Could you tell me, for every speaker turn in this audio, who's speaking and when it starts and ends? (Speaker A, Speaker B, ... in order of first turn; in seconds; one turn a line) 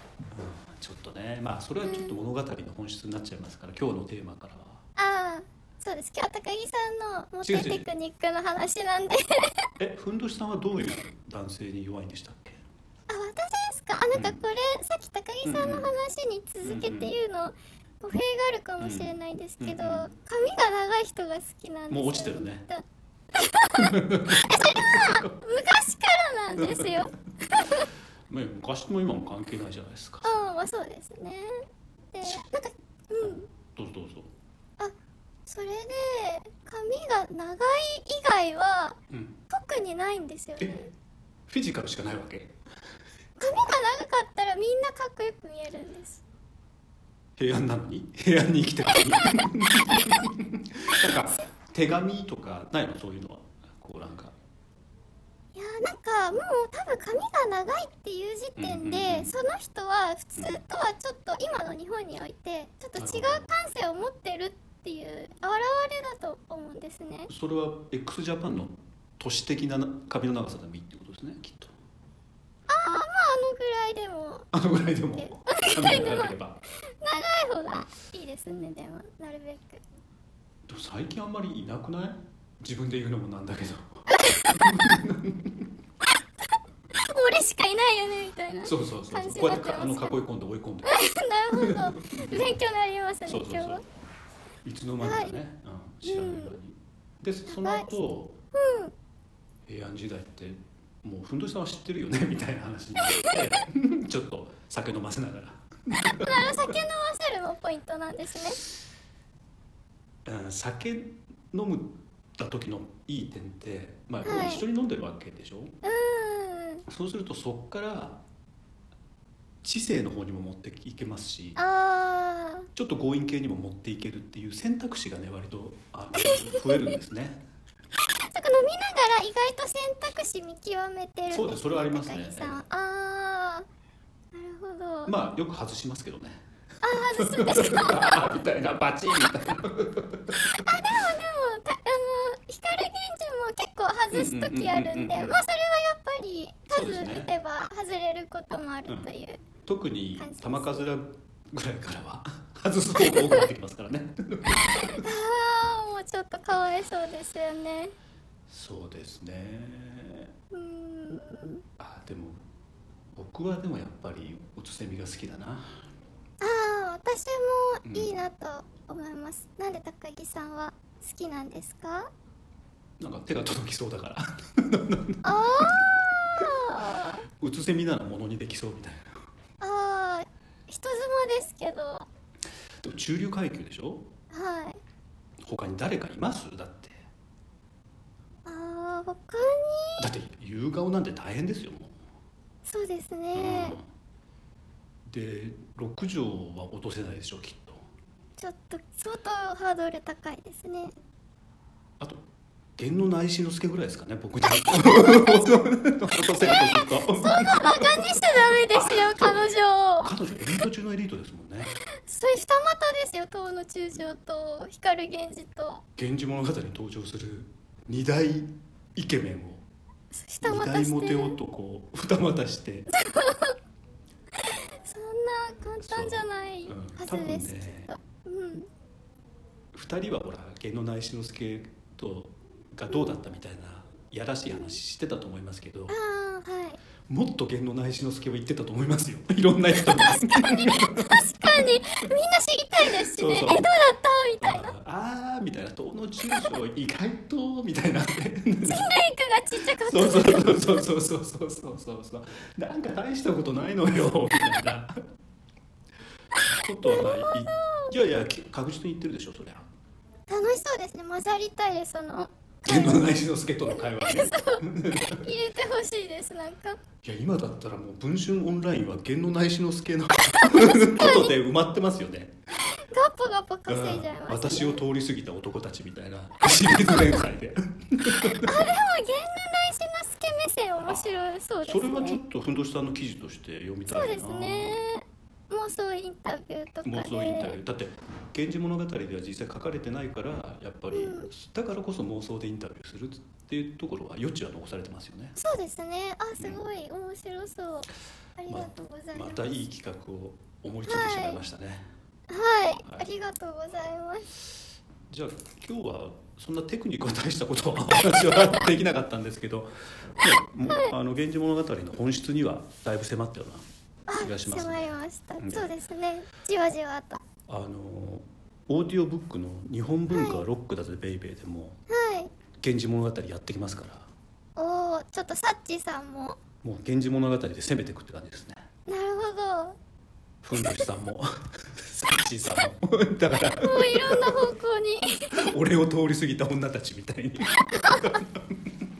Speaker A: 0.3-4.8
Speaker B: 1.8-2.1
Speaker B: 5.0-9.7
Speaker A: 7.4-7.9
Speaker A: 9.8-12.6
Speaker B: 13.1-27.9
Speaker A: 14.1-14.4
Speaker A: 15.4-15.9
Speaker A: 16.6-17.1
Speaker A: 18.8-20.1
Speaker A: 21.9-22.6
Speaker A: 23.8-25.3
Speaker A: 26.6-27.0
Speaker A: 28.3-30.3
Speaker B: 30.2-33.5
Speaker A: 33.2-34.3
Speaker B: 35.5-39.0
Speaker A: 39.1-39.4
Speaker B: 39.5-40.9
Speaker A: 41.5-42.6
Speaker B: 43.4-46.2
Speaker A: 47.4-54.4
Speaker B: 55.5-67.3
Speaker A: 58.6-59.4
Speaker A: 63.0-63.5
Speaker A: 67.3-71.7
Speaker B: 72.7-74.5
Speaker A: 74.5-76.6
Speaker B: 75.2-76.3
Speaker B: 77.0-79.8
Speaker A: 80.7-85.7
Speaker B: 84.1-84.8
Speaker B: 86.9-90.1
Speaker A: 88.6-90.9
Speaker B: 90.8-93.8
Speaker A: 91.5-92.5
Speaker A: 93.2-93.8
Speaker A: 94.6-98.4
Speaker B: 95.0-95.3
Speaker B: 96.0-96.5
Speaker B: 97.5-98.0
Speaker B: 98.5-98.9
Speaker A: 99.7-106.7
Speaker B: 103.1-103.3
Speaker B: 106.1-108.6
Speaker A: 110.2-115.7
Speaker B: 114.2-114.6
Speaker B: 115.8-116.8
Speaker A: 116.9-118.2
Speaker A: 119.6-121.6
Speaker B: 121.5-122.7
Speaker A: 122.7-127.4
Speaker B: 126.1-126.9
Speaker B: 128.2-133.7
Speaker A: 131.3-132.6
Speaker B: 134.3-135.1
Speaker A: 135.1-136.4
Speaker B: 136.8-138.3
Speaker A: 137.1-140.7
Speaker B: 140.5-149.4
Speaker A: 144.1-145.4
Speaker A: 146.7-147.3
Speaker A: 149.7-155.1
Speaker B: 150.2-150.8
Speaker B: 153.1-153.4
Speaker B: 154.9-157.9
Speaker A: 158.5-160.3
Speaker B: 160.5-161.6
Speaker A: 161.8-162.4
Speaker A: 163.1-165.8
Speaker B: 166.4-172.1
Speaker A: 167.8-168.1
Speaker A: 173.0-175.8
Speaker B: 175.2-177.2
Speaker A: 177.3-179.2
Speaker B: 179.6-182.1
Speaker A: 182.8-184.1
Speaker B: 184.3-184.8
Speaker A: 185.4-187.0
Speaker B: 188.4-190.1
Speaker A: 190.0-191.9
Speaker B: 192.7-193.8
Speaker A: 193.3-193.8
Speaker A: 195.1-197.8
Speaker B: 198.4-200.9
Speaker A: 202.8-209.5
Speaker B: 204.5-205.6
Speaker B: 206.4-210.1
Speaker A: 210.0-211.8
Speaker B: 212.0-215.8
Speaker A: 216.0-219.6
Speaker B: 220.1-221.4
Speaker A: 220.4-222.9
Speaker B: 222.9-223.6
Speaker B: 224.8-228.7
Speaker A: 225.8-227.9
Speaker A: 229.7-235.9
Speaker B: 234.5-234.8
Speaker B: 235.9-236.8
Speaker A: 237.1-241.2
Speaker B: 239.8-244.7
Speaker A: 242.8-243.7
Speaker A: 244.4-248.9
Speaker B: 248.6-250.5
Speaker A: 249.8-254.9
Speaker A: 256.5-259.7
Speaker B: 256.8-257.9
Speaker B: 260.3-263.1
Speaker A: 262.6-265.3
Speaker B: 263.7-266.8
Speaker A: 267.0-272.4
Speaker B: 270.3-271.3
Speaker B: 272.7-274.8
Speaker A: 273.7-278.6
Speaker B: 278.4-282.2
Speaker A: 280.8-284.8
Speaker B: 283.9-287.6
Speaker A: 286.8-295.4
Speaker B: 290.9-291.3
Speaker B: 295.4-299.4
Speaker A: 298.5-301.9
Speaker B: 300.9-301.4
Speaker B: 302.3-304.3
Speaker A: 305.1-315.7
Speaker B: 314.1-317.2
Speaker A: 317.5-321.8
Speaker B: 320.1-320.4
Speaker B: 321.9-322.3
Speaker A: 322.6-324.1
Speaker B: 324.6-326.4
Speaker A: 326.6-328.6
Speaker B: 328.9-329.8
Speaker A: 330.4-334.5
Speaker B: 333.6-335.5
Speaker A: 335.3-338.8
Speaker B: 337.7-338.2